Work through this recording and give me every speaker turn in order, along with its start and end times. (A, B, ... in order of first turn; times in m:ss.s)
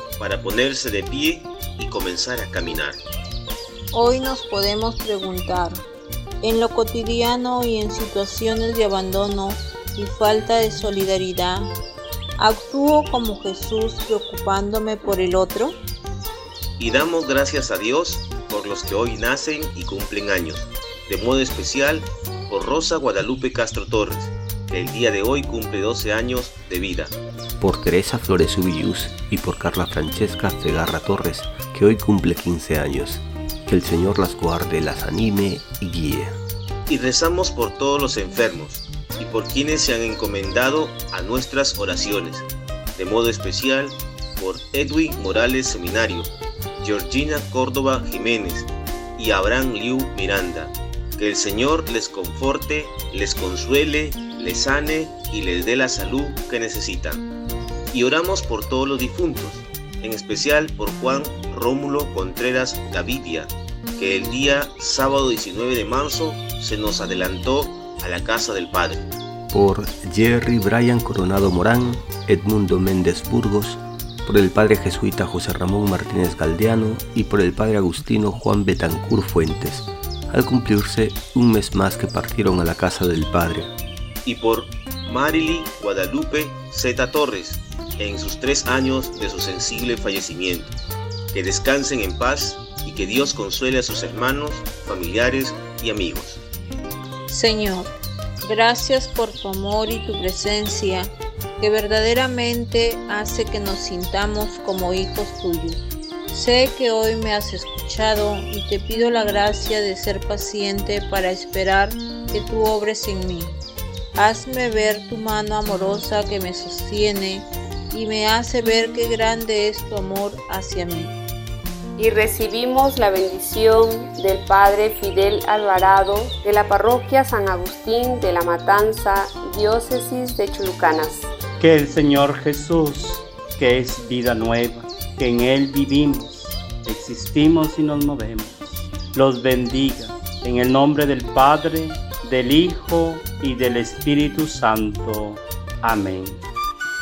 0:00.2-0:03.0 A
0:03.9-0:05.8 B
0:06.4-0:11.7 B
0:12.4-0:15.8 B
0:16.8-0:27.1 A
0:27.6-0:36.4 C
0:36.9-0:57.3 A
0:57.9-1:09.1 A
1:09.5-1:23.7 C
1:24.2-1:30.8 A
1:31.3-1:36.4 A
1:37.3-1:37.9 B
1:38.4-1:53.6 B
1:54.2-2:01.1 B
2:02.0-2:11.3 D
2:11.6-2:26.4 E